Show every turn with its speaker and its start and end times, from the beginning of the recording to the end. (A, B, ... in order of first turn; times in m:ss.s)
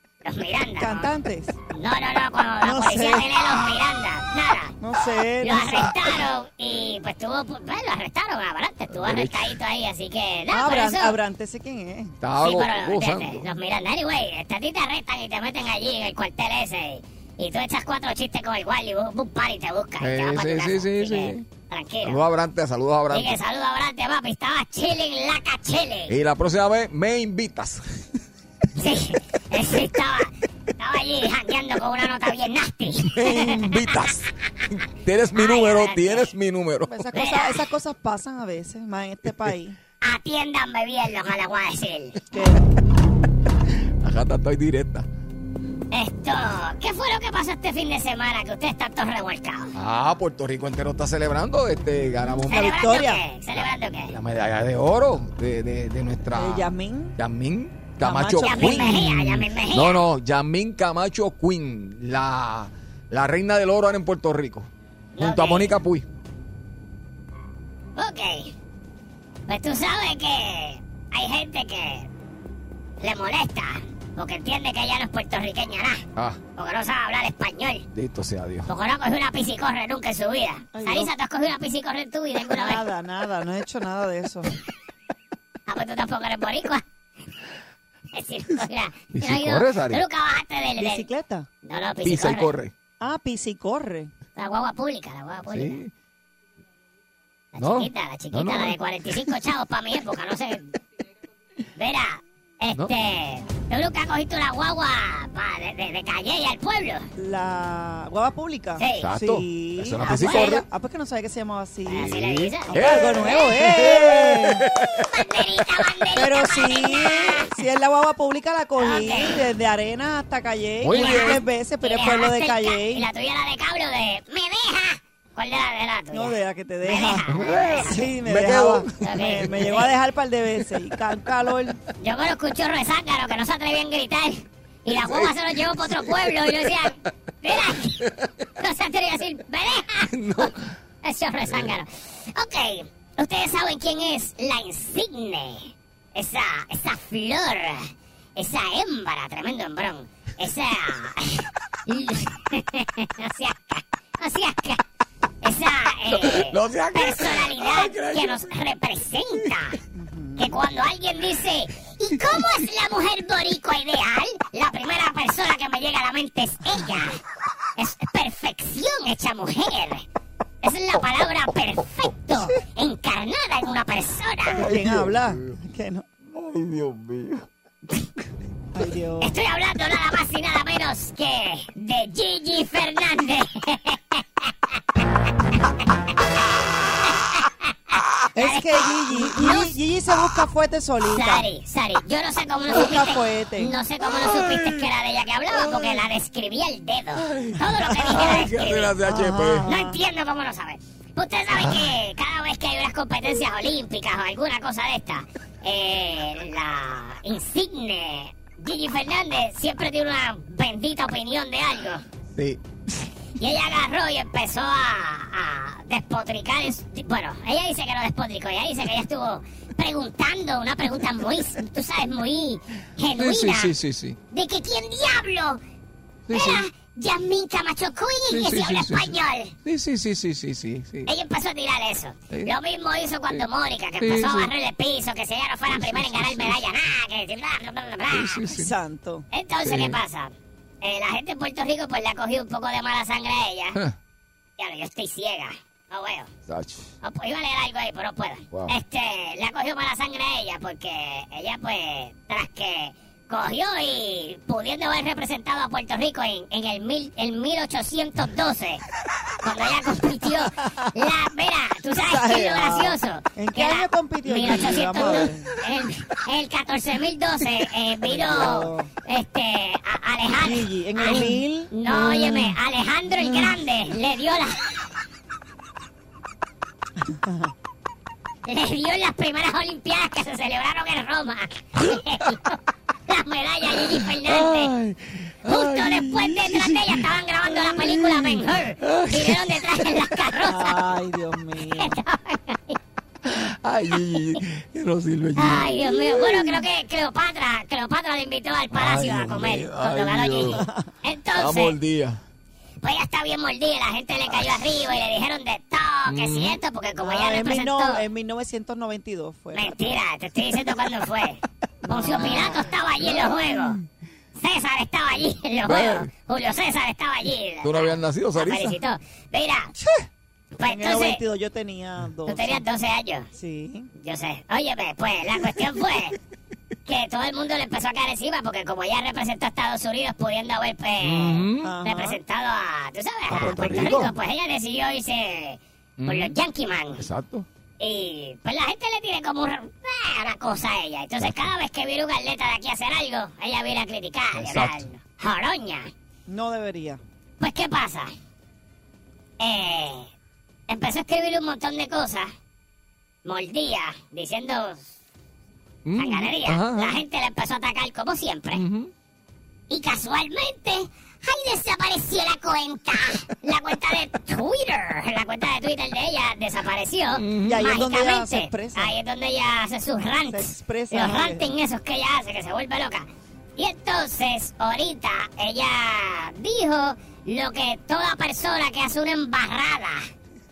0:00.2-0:01.1 A
0:00.8-0:01.5 B
0:01.7-0:04.7 A
0:02.6-0:03.4 B
0:04.8-0:05.9 B
0:05.4-0:11.1 A
0:08.9-0:09.5 C
0:10.5-0:12.2 B
0:12.2-0:13.5 C
0:12.4-0:22.2 A
0:20.0-0:21.4 C
0:22.0-0:23.4 C
0:23.1-0:26.1 A
0:26.1-0:28.2 C
0:28.8-0:34.1 A
0:33.0-0:34.2 C
0:34.9-0:37.0 C
0:35.3-0:36.3 A
0:36.8-0:39.8 B
0:37.1-0:37.6 A
0:40.0-0:42.2 A
0:42.3-0:42.7 B
0:44.0-0:45.1 C
0:45.9-0:49.7 A
0:49.7-0:52.8 C
0:52.5-0:53.2 B
0:52.5-0:54.2 A
0:53.5-1:06.0 C
0:56.3-0:57.2 B
0:58.0-0:59.0 B
0:58.4-1:00.0 A
1:05.1-1:05.8 A
1:08.0-1:08.5 A
1:09.5-1:12.1 A
1:13.0-1:16.0 A
1:16.2-1:16.4 C
1:16.6-1:17.8 A
1:17.9-1:18.7 C
1:18.6-1:22.8 A
1:20.7-1:21.1 B
1:22.5-1:24.5 B
1:25.7-1:26.8 A
1:28.1-1:31.0 A
1:29.1-1:30.0 C
1:30.8-1:31.5 B
1:31.6-1:32.5 A
1:32.0-1:32.7 C
1:33.0-1:34.1 B
1:34.4-1:35.8 A
1:35.5-1:35.9 C
1:37.5-1:40.7 A
1:37.6-1:38.8 C
1:41.8-1:47.1 A
1:47.2-1:52.1 B
1:48.8-1:49.1 A
1:49.0-1:50.6 C
1:50.1-1:50.6 A
1:51.9-1:53.6 A
1:52.0-1:55.8 C
1:52.7-1:54.6 B
1:55.0-1:57.5 A
1:56.1-2:03.1 B
1:58.8-1:59.4 A
2:00.8-2:01.4 C
2:00.9-2:08.0 A
2:06.1-2:11.8 B
2:07.3-2:09.7 C
2:09.0-2:09.9 A
2:12.0-2:18.0 A
2:14.9-2:16.9 C
2:17.6-2:18.3 C
2:18.6-2:20.5 A
2:20.1-2:20.8 C
2:21.0-2:34.8 A
2:21.4-2:21.8 C
2:35.4-2:39.8 A
2:36.0-2:38.6 C
2:39.9-2:40.6 B
2:40.4-2:47.2 A
2:47.8-2:50.1 A
2:50.6-2:54.7 A
2:54.6-2:55.6 C
2:54.6-2:56.0 B
2:56.2-2:57.5 C
2:58.7-2:59.3 B
2:59.2-3:04.2 A
3:07.0-3:09.8 A
3:08.4-3:11.5 B
3:11.0-3:19.0 A
3:12.7-3:13.7 B
3:14.0-3:14.9 C
3:15.5-3:16.1 C
3:17.2-3:19.7 C
3:17.9-3:18.3 B
3:19.0-3:20.0 B
3:19.6-3:32.0 A
3:21.5-3:21.9 C
3:32.3-3:32.9 C
3:33.4-3:43.7 A
3:43.2-3:44.2 C
3:44.3-3:45.6 A
3:46.3-3:46.6 C
3:46.3-3:49.5 A
3:48.3-3:51.1 C
3:51.0-3:58.4 A
3:53.3-3:54.5 C
3:55.7-3:56.6 C
3:58.1-3:58.7 C
3:58.5-3:59.2 B
3:59.3-4:03.8 A
3:59.6-4:00.0 C
4:04.6-4:06.3 A
4:06.5-4:06.9 C
4:07.0-4:18.8 A
4:08.5-4:08.7 C
4:19.4-4:34.8 A
4:21.9-4:25.5 B
4:28.0-4:28.9 B
4:30.4-4:32.5 B
4:37.1-4:37.5 B
4:38.5-4:44.7 A
4:44.2-4:50.2 C
4:45.5-4:50.8 A
4:50.4-4:52.0 B
4:51.7-4:52.8 A
4:53.2-4:56.6 C
4:55.4-5:01.8 A
4:58.7-5:00.6 C
5:00.6-5:00.9 B
5:01.3-5:02.2 C
5:02.8-5:08.0 A
5:04.3-5:04.7 C
5:06.1-5:06.6 C
5:07.0-5:09.7 B
5:09.5-5:13.8 A
5:11.9-5:12.5 B
5:12.0-5:12.6 C
5:14.4-5:19.7 A
5:15.6-5:16.1 C
5:17.6-5:18.8 C
5:19.8-5:20.0 B
5:20.6-5:21.2 A
5:20.6-5:22.6 B
5:22.2-5:23.3 A
5:23.3-5:23.9 B
5:24.0-5:26.2 A
5:26.9-5:37.0 A
5:31.0-5:31.7 C
5:31.6-5:32.2 B
5:33.3-5:34.1 C
5:36.0-5:36.4 C
5:37.0-5:37.5 C
5:37.8-5:45.9 A
5:44.3-5:44.9 C
5:46.3-5:47.0 B
5:47.4-5:48.1 A
5:49.4-5:50.1 A
5:50.7-5:52.3 A
5:53.2-5:54.9 A
5:55.8-5:57.0 C
5:56.0-5:58.6 A
5:58.5-5:58.9 C
5:59.7-6:20.1 A
6:07.1-6:07.6 C
6:07.4-6:08.9 B
6:10.3-6:11.5 B